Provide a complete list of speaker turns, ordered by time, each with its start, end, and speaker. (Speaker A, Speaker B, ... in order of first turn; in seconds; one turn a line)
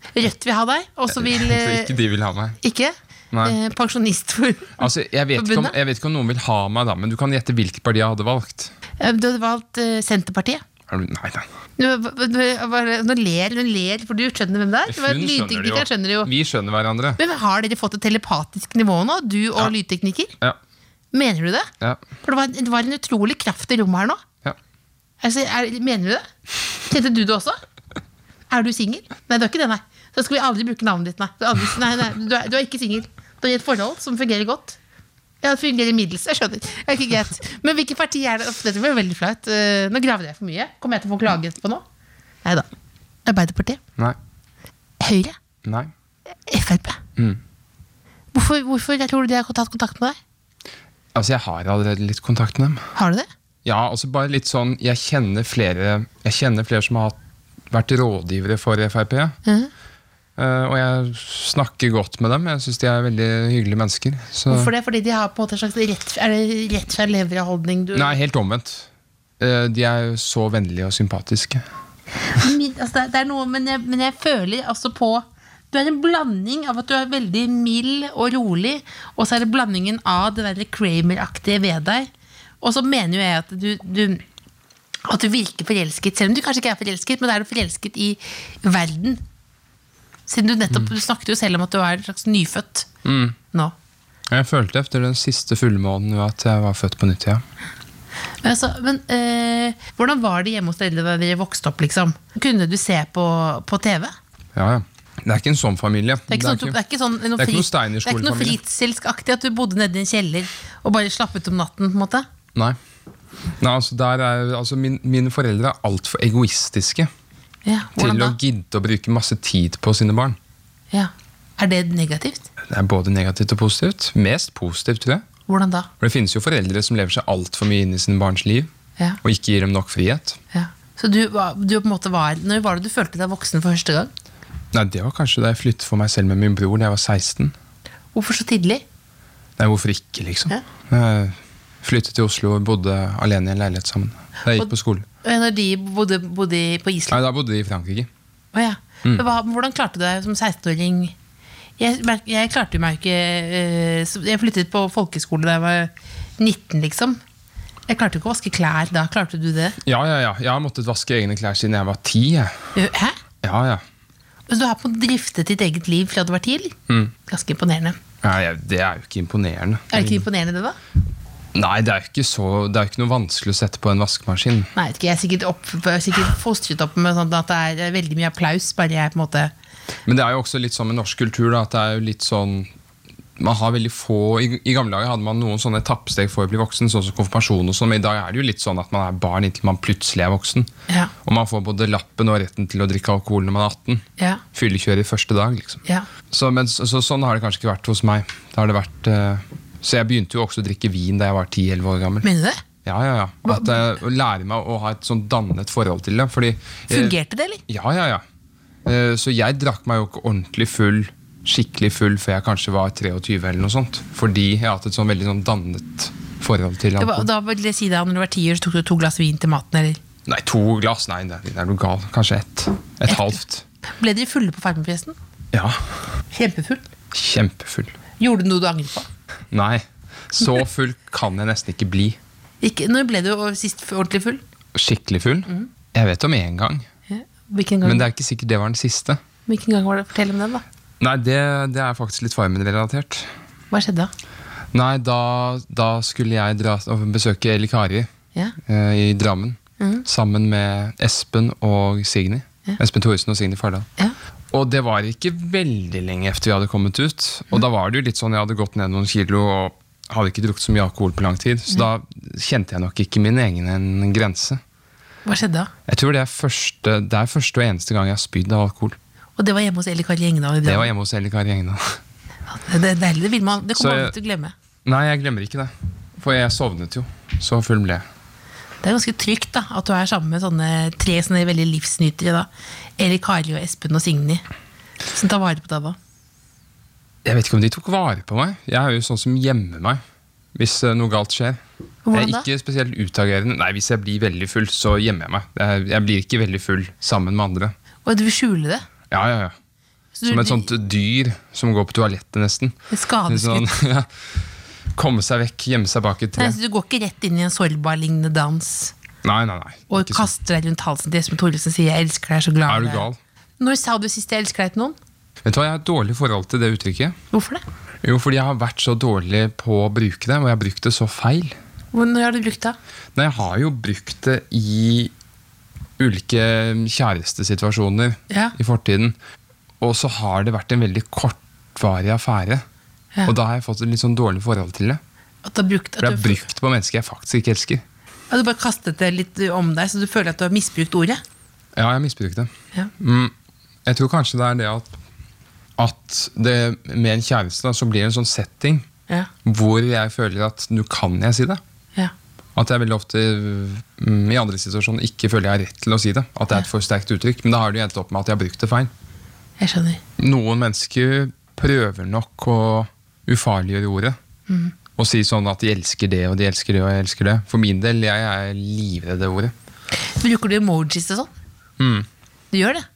Speaker A: 0.1-1.9
Speaker B: 1.1-2.6
Speaker A: 2.6-5.8
Speaker B: 4.8-8.7
Speaker A: 9.0-10.6
Speaker B: 10.9-11.5
Speaker A: 11.8-16.3
Speaker B: 14.9-17.2
Speaker A: 17.2-20.3
Speaker A: 21.1-21.7
Speaker A: 22.2-24.2
Speaker A: 25.2-26.3
Speaker A: 26.9-27.6
Speaker A: 28.5-34.8
Speaker A: 35.4-41.8
Speaker A: 43.2-43.8
Speaker A: 45.0-45.4
Speaker B: 45.6-45.9
Speaker A: 46.5-47.0
Speaker B: 47.2-47.4
Speaker A: 48.3-50.2
Speaker B: 51.1-52.9
Speaker A: 53.0-53.3
Speaker B: 53.6-57.2
Speaker B: 57.7-59.4
Speaker B: 60.4-64.7
Speaker A: 64.5-68.1
Speaker B: 67.9-68.9
Speaker B: 69.4-71.7
Speaker A: 72.3-82.1
Speaker A: 82.6-84.2
Speaker A: 85.0-89.2
Speaker A: 90.3-92.9
Speaker B: 93.0-93.4
Speaker B: 94.3-97.4
Speaker A: 98.4-104.1
Speaker B: 104.5-106.8
Speaker A: 106.3-112.3
Speaker B: 107.4-108.6
Speaker B: 113.6-117.1
Speaker A: 117.7-118.4
Speaker B: 118.0-120.4
Speaker A: 120.9-122.5
Speaker B: 122.6-125.2
Speaker A: 125.5-125.9
Speaker B: 126.0-128.7
Speaker B: 129.2-130.4
Speaker A: 130.5-134.1
Speaker B: 134.7-137.6
Speaker A: 138.1-138.8
Speaker B: 139.6-145.1
Speaker A: 145.2-147.2
Speaker B: 147.1-148.1
Speaker A: 148.5-151.2
Speaker A: 151.8-157.2
Speaker A: 157.9-159.8
Speaker B: 159.8-162.7
Speaker A: 162.8-163.2
Speaker B: 163.4-163.8
Speaker A: 164.5-168.0
Speaker B: 168.2-170.3
Speaker A: 169.9-170.8
Speaker B: 171.6-174.7
Speaker A: 174.8-179.5
Speaker B: 180.1-182.7
Speaker B: 183.4-190.7
Speaker B: 191.2-202.3
Speaker A: 202.2-202.6
Speaker B: 202.8-207.2
Speaker A: 203.4-203.8
Speaker A: 206.9-207.6
Speaker B: 207.7-208.2
Speaker B: 208.8-217.3
Speaker A: 217.0-220.0
Speaker B: 220.3-223.7
Speaker A: 223.1-223.3
Speaker A: 223.9-225.2
Speaker B: 225.5-225.9
Speaker A: 226.3-226.9
Speaker B: 227.1-228.0
Speaker A: 228.2-229.1
Speaker B: 229.5-232.2
Speaker A: 232.6-234.4
Speaker B: 234.8-236.9
Speaker A: 237.1-238.1
Speaker B: 237.8-239.2
Speaker A: 239.5-240.6
Speaker B: 241.0-243.3
Speaker A: 243.7-244.1
Speaker B: 244.7-253.9
Speaker A: 249.8-250.1
Speaker B: 254.5-264.6
Speaker A: 265.3-265.7
Speaker B: 265.9-269.0
Speaker A: 269.4-270.9
Speaker B: 270.6-272.0
Speaker A: 272.5-274.5
Speaker B: 273.8-274.1
Speaker B: 274.9-278.1
Speaker A: 278.8-284.4
Speaker A: 285.1-286.0
Speaker B: 287.2-290.0
Speaker B: 290.6-291.6
Speaker A: 292.1-292.5
Speaker B: 292.1-297.7
Speaker A: 298.1-298.8
Speaker B: 299.1-299.5
Speaker A: 300.1-300.7
Speaker B: 300.3-304.1
Speaker A: 302.9-303.7
Speaker B: 304.9-306.6
Speaker A: 306.4-308.9
Speaker B: 309.2-310.3
Speaker A: 309.9-313.1
Speaker B: 312.7-313.2
Speaker A: 313.6-315.0
Speaker B: 315.4-317.2
Speaker A: 317.3-317.6
Speaker B: 318.0-321.6
Speaker A: 321.9-322.8
Speaker B: 323.1-325.1
Speaker B: 326.0-329.1
Speaker A: 328.3-328.6
Speaker B: 329.8-332.6
Speaker B: 333.2-335.0
Speaker A: 335.4-336.4
Speaker B: 336.0-337.8
Speaker A: 338.3-341.2
Speaker B: 341.8-343.3
Speaker B: 343.9-345.0
Speaker B: 345.8-348.9
Speaker B: 349.4-351.6
Speaker B: 352.6-358.9
Speaker A: 359.6-360.0
Speaker B: 360.2-364.2
Speaker A: 364.5-364.7
Speaker B: 365.0-369.5
Speaker A: 370.0-371.3
Speaker B: 371.8-372.1
Speaker A: 372.5-372.9